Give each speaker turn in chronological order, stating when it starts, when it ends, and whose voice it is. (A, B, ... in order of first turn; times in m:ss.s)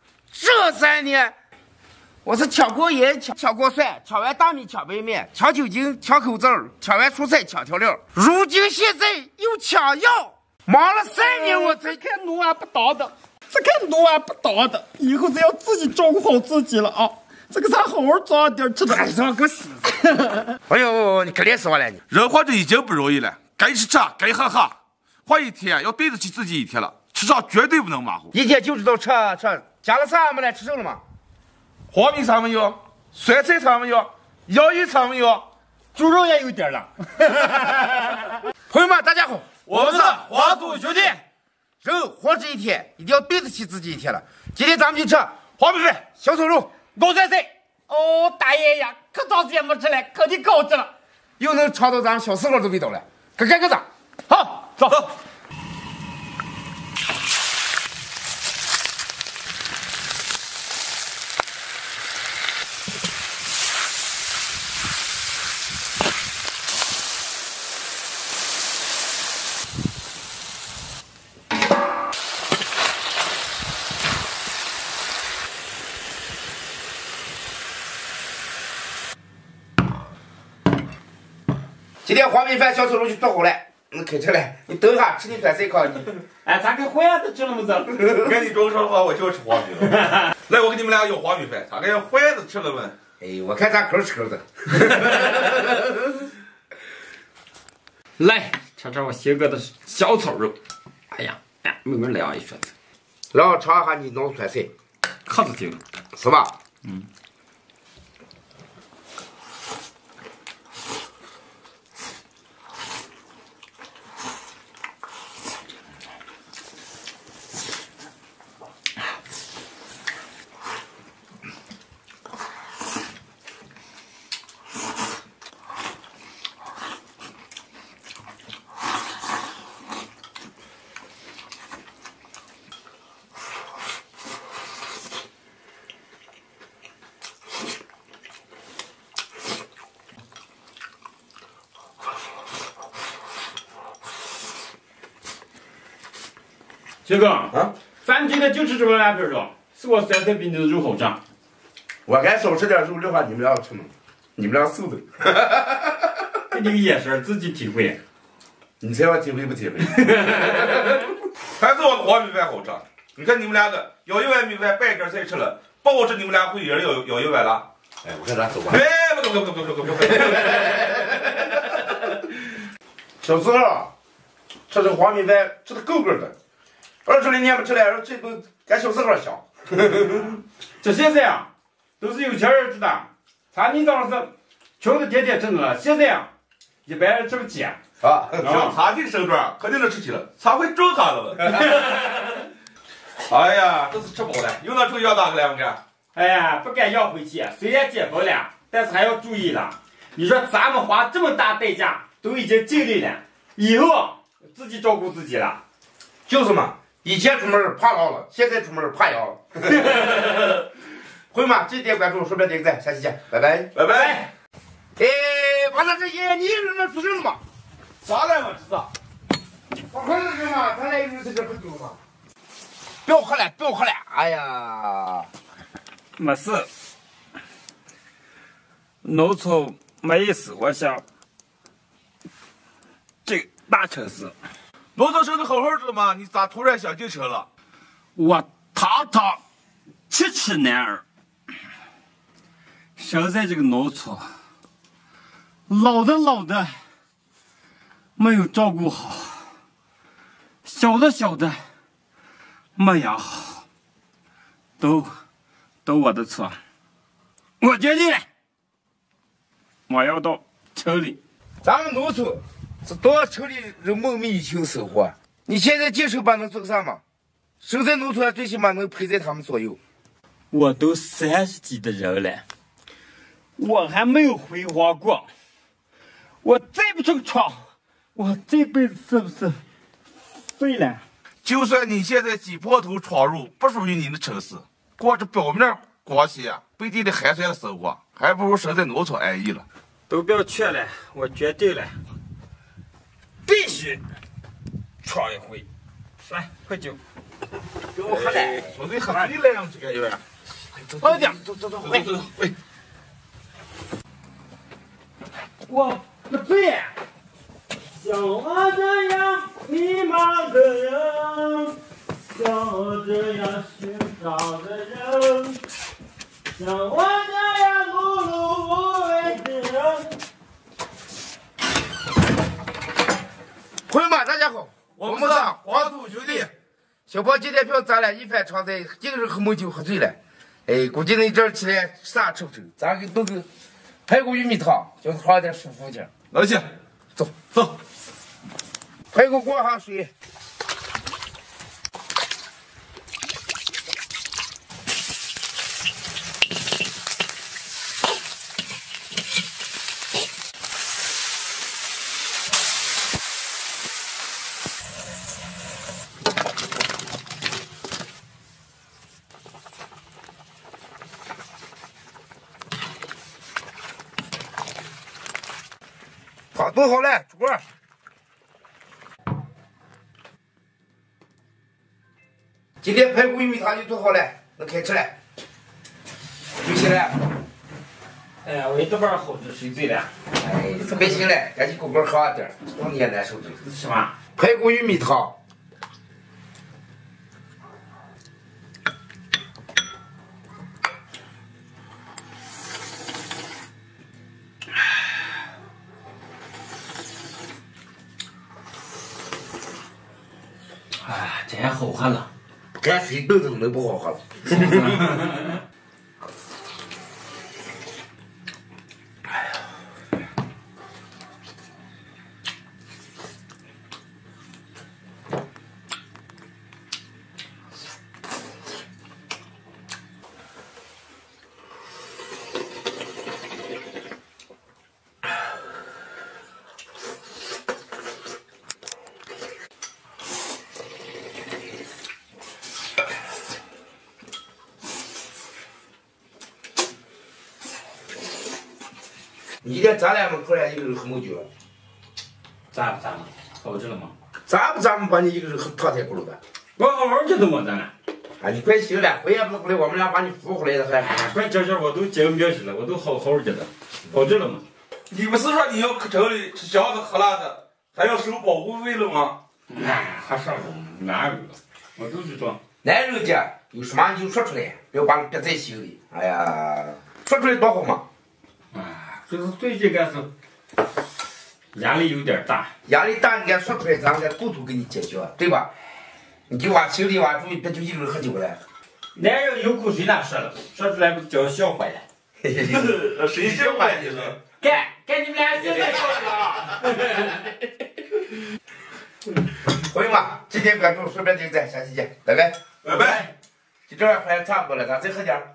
0:00.3-0:01.3 A
0:02.2-0:12.0 A
0:11.1-0:19.1 B
0:18.8-0:19.8 A
0:19.8-0:20.6 B
0:20.7-0:22.0 A
0:22.1-0:24.7 C
0:25.3-0:28.3 C
0:28.3-0:31.0 A
0:31.9-0:32.8 C
0:33.1-0:35.4 A
0:35.9-0:38.4 B
0:38.7-0:40.2 A
0:39.7-0:41.2 C
0:39.7-0:41.2 B
0:41.8-0:45.4 A
0:45.6-0:46.0 C
0:46.2-0:46.8 A
0:46.9-0:50.9 B
0:51.4-0:53.8 A
0:54.3-0:55.1 B
1:22.0-1:26.2 A
1:26.4-1:28.0 B
1:28.0-1:32.9 C
1:30.0-1:30.3 B
1:33.2-1:36.0 A
1:38.2-1:40.6 B
1:41.1-1:42.7 B
1:43.3-1:44.7 A
1:45.2-1:45.8 B
1:46.2-1:46.5 A
2:27.0-2:31.2 B
2:32.1-2:36.1 A
2:36.5-2:38.0 B
2:38.8-2:40.9 A
2:40.0-2:40.9 B
2:41.6-2:47.7 C
2:48.0-2:48.8 A
2:48.7-2:51.5 C
2:53.2-2:53.9 A
2:54.7-2:56.3 A
2:57.0-3:00.4 A
3:00.8-3:01.5 B
3:02.0-3:06.3 B
3:06.8-3:07.8 B
3:08.0-3:08.3 A
3:08.3-3:11.9 C
3:08.4-3:08.8 B
3:11.5-3:12.2 B
3:13.3-3:15.8 C
3:16.1-3:25.6 B
3:26.3-3:30.1 A
3:29.9-3:30.2 B
3:31.3-3:33.7 A
3:33.7-3:34.3 C
3:33.9-3:34.2 B
3:35.0-3:37.4 A
3:38.0-3:38.9 C
3:39.9-3:42.0 A
3:43.0-3:45.3 A
3:46.2-3:46.7 B
3:49.0-3:51.0 B
3:53.2-3:54.3 B
3:55.0-3:57.5 C
3:58.2-3:59.4 B
4:00.1-4:01.0 B
4:03.0-4:04.3 B
4:05.7-4:06.7 B
4:08.2-4:09.4 B
4:10.6-4:11.6 B
4:12.8-4:13.6 B
4:14.8-4:15.1 B
4:15.8-4:16.6 B
4:17.6-4:18.2 B
4:19.9-4:21.2 B
4:21.6-4:27.0 A
4:27.6-4:29.8 A
4:30.5-4:32.4 B
4:33.6-4:35.3 B
4:36.4-4:39.6 B
4:40.4-4:41.0 B
4:41.4-4:49.6 C
4:50.1-4:52.0 B
4:53.4-4:54.0 B
4:55.0-4:55.6 B
4:56.2-4:57.0 B
4:57.9-4:58.8 A
4:58.1-5:00.2 C
5:01.0-5:02.1 A
5:01.8-5:02.5 C
5:05.7-5:06.9 B
5:07.8-5:15.6 B
5:16.6-5:20.1 B
5:23.9-5:26.5 A
5:25.0-5:26.5 C
5:27.1-5:33.4 A
5:34.1-5:36.1 A
5:36.3-5:36.7 C
5:39.1-5:40.1 A
6:06.5-6:07.6 A
6:12.8-6:15.1 A
6:16.6-6:17.1 A
6:18.4-6:20.1 B
6:20.4-6:23.6 A
6:23.6-6:24.1 B
6:24.4-6:25.3 A
6:41.0-6:42.3 B
6:42.8-6:44.7 A
6:44.5-6:45.3 B
7:19.6-7:21.5 A
7:22.7-7:24.1 B
7:24.5-7:26.4 A
7:26.8-7:27.9 B
7:28.4-7:31.3 A
7:31.0-7:34.6 B
7:35.1-7:39.4 C
7:39.7-7:42.6 B
7:42.8-7:48.0 A
7:48.7-7:50.3 B
7:51.7-7:52.7 B
7:52.8-7:55.7 A
7:56.5-7:58.6 A
7:59.1-8:02.0 B
8:02.4-8:04.2 A
8:02.8-8:04.4 C
8:04.6-8:07.4 B
8:06.0-8:06.5 C
8:09.8-8:12.6 A
8:12.8-8:13.3 C
8:12.9-8:13.3 B
8:13.9-8:15.4 A